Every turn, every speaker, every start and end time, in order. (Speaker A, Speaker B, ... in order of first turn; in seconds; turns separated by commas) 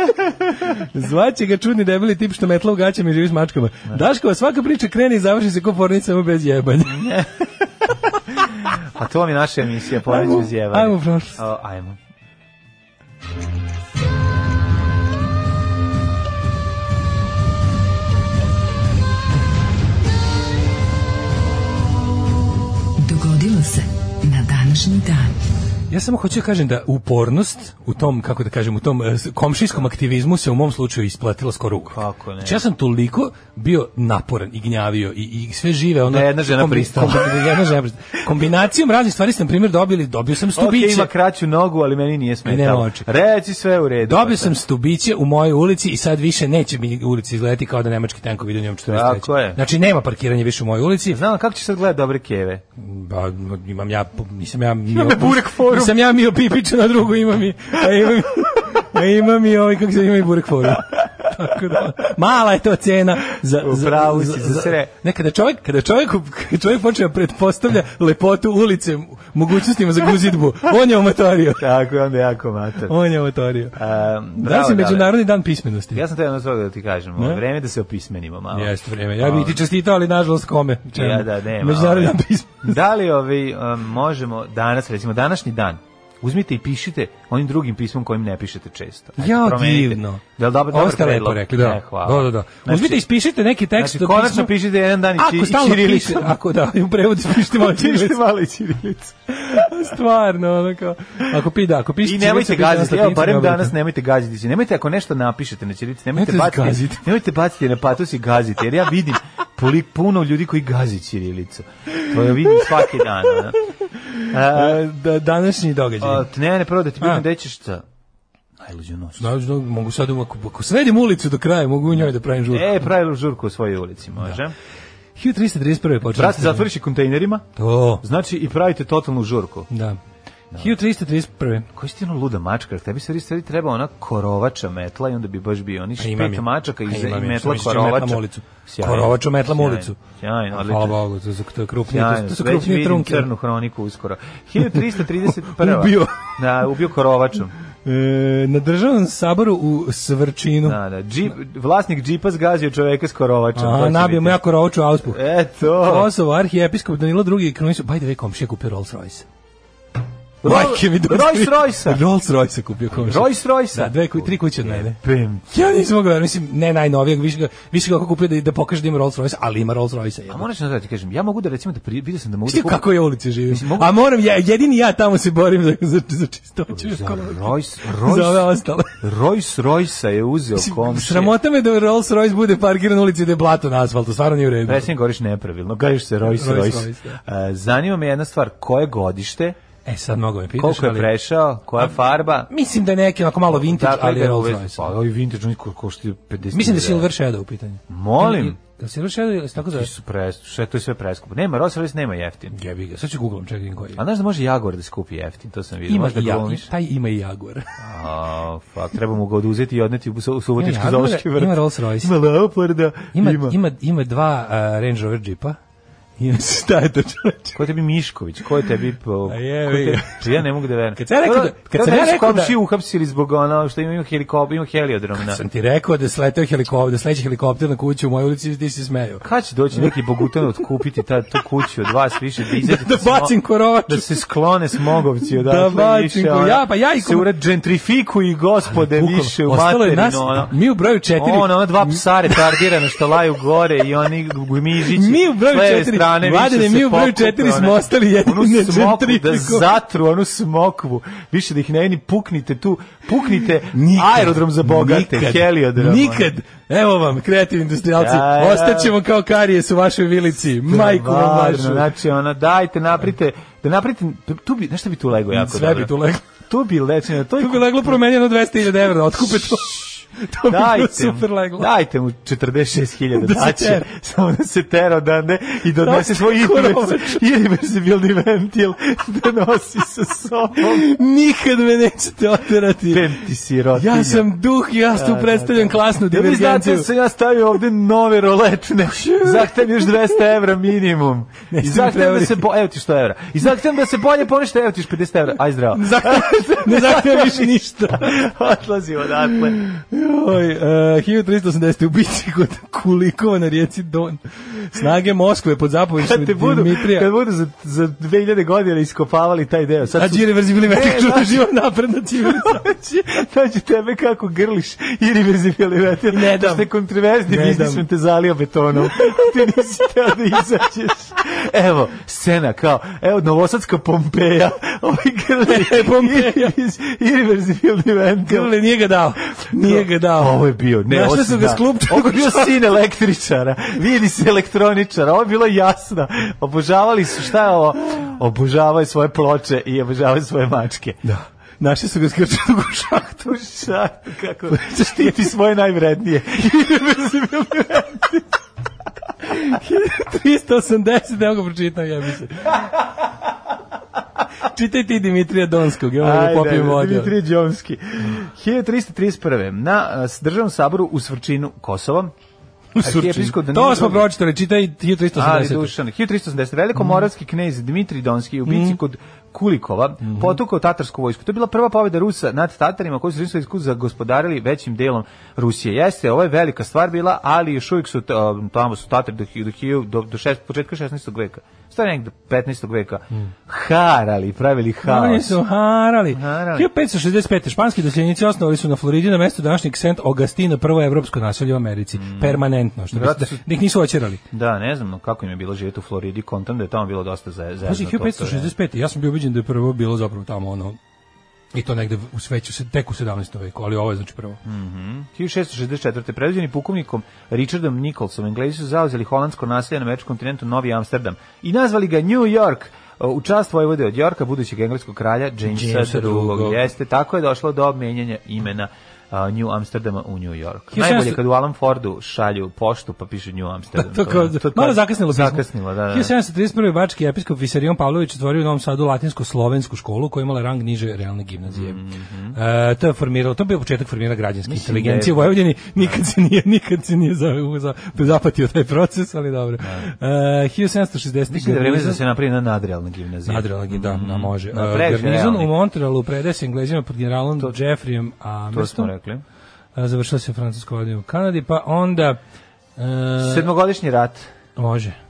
Speaker A: 0.7-7.1, Speaker B: 6.9-7.3, Speaker B: 8.4-12.0, Speaker A: 10.0-11.4, Speaker C: 23.0-25.3, Speaker A: 25.9-41.1, Speaker B: 31.9-32.6, Speaker B: 36.1-37.5, Speaker B: 40.5-44.5, Speaker A: 42.5-43.0, Speaker A: 44.0-51.2, Speaker B: 48.9-49.6, Speaker B: 51.1-52.6, Speaker A: 52.8-71.6, Speaker B: 54.9-56.0, Speaker B: 63.6-64.9, Speaker B: 71.6-72.9, Speaker A: 72.9-73.8, Speaker B: 73.7-75.2, Speaker A: 74.4-76.0, Speaker B: 75.9-79.6, Speaker A: 77.2-77.4, Speaker A: 78.5-82.8, Speaker B: 80.9-93.0, Speaker A: 89.2-94.5, Speaker B: 93.8-96.3, Speaker A: 95.2-98.2, Speaker B: 97.3-99.7, Speaker A: 99.3-103.7, Speaker B: 102.0-113.6, Speaker A: 106.2-107.0, Speaker A: 112.4-113.0, Speaker A: 114.1-116.3, Speaker B: 114.3-114.8, Speaker B: 116.0-117.8, Speaker B: 118.6-119.3, Speaker A: 119.2-122.9, Speaker B: 121.9-124.5, Speaker A: 125.2-126.7, Speaker B: 126.1-129.7, Speaker A: 127.5-128.0, Speaker A: 129.7-130.0, Speaker B: 130.5-130.8, Speaker A: 130.6-131.7, Speaker B: 131.7-141.0, Speaker A: 136.0-140.0, Speaker A: 140.6-143.3, Speaker B: 141.9-147.5, Speaker A: 144.6-146.2, Speaker A: 147.8-150.8, Speaker B: 150.6-154.4, Speaker A: 153.6-155.2, Speaker B: 155.0-156.1, Speaker A: 155.8-159.2, Speaker B: 160.4-162.0, Speaker A: 160.4-170.4, Speaker B: 162.9-165.6, Speaker B: 170.3-172.8, Speaker A: 172.4-179.0, Speaker B: 173.5-173.9, Speaker B: 176.7-181.3, Speaker A: 180.6-184.9, Speaker B: 184.6-189.6, Speaker A: 186.2-187.2, Speaker A: 189.8-191.1, Speaker B: 190.6-192.5, Speaker A: 192.5-194.9, Speaker B: 193.5-197.1, Speaker A: 196.5-199.9, Speaker B: 197.9-198.6, Speaker B: 199.7-202.6, Speaker A: 202.5-204.0, Speaker B: 203.9-206.7, Speaker A: 205.9-207.7, Speaker B: 207.8-213.6, Speaker A: 210.6-212.1, Speaker A: 213.1-215.6, Speaker A: 216.2-217.6, Speaker B: 217.5-225.4, Speaker A: 219.3-220.4, Speaker A: 220.9-222.5, Speaker A: 225.2-230.6, Speaker B: 229.2-233.3, Speaker A: 232.6-234.1, Speaker B: 233.9-240.5, Speaker A: 235.2-237.3, Speaker A: 238.7-242.7, Speaker B: 241.2-256.3, Speaker A: 244.8-249.7, Speaker A: 253.7-261.9, Speaker B: 258.0-258.9, Speaker B: 260.6-268.0, Speaker A: 265.3-266.2, Speaker A: 267.4-271.7, Speaker B: 269.3-269.6, Speaker B: 270.4-280.8, Speaker A: 273.1-273.9, Speaker A: 275.8-277.2, Speaker A: 280.6-283.2, Speaker B: 282.9-284.3, Speaker A: 283.7-286.9, Speaker B: 284.9-299.6, Speaker A: 288.9-290.1, Speaker A: 291.5-292.5, Speaker A: 295.7-298.2, Speaker A: 299.3-307.1, Speaker B: 306.0-311.5, Speaker A: 309.9-312.6, Speaker B: 312.2-328.5, Speaker A: 316.1-316.7, Speaker A: 317.3-317.8, Speaker A: 325.4-326.5, Speaker A: 328.2-332.5, Speaker B: 329.3-341.0, Speaker A: 341.0-343.2, Speaker B: 343.2-348.3, Speaker A: 344.5-345.3, Speaker A: 349.2-352.7, Speaker A: 354.4-357.1, Speaker B: 356.0-362.1, Speaker A: 362.7-365.7, Speaker B: 362.8-364.1, Speaker B: 365.1-385.4, Speaker A: 368.5-368.8, Speaker A: 370.0-370.3, Speaker A: 384.8-394.2, Speaker B: 386.1-386.7, Speaker B: 391.9-393.4, Speaker B: 394.3-398.5, Speaker A: 397.6-400.8, Speaker A: 401.5-404.4, Speaker B: 404.4-426.1, Speaker A: 415.5-416.6, Speaker A: 420.7-421.2, Speaker A: 423.8-431.8, Speaker B: 431.5-432.4, Speaker A: 432.3-442.0, Speaker B: 434.4-436.0, Speaker B: 439.6-439.9, Speaker B: 441.3-445.5, Speaker A: 443.2-448.9, Speaker B: 448.5-449.2, Speaker A: 449.8-452.2, Speaker A: 452.8-453.5, Speaker B: 453.2-454.3, Speaker A: 454.6-455.0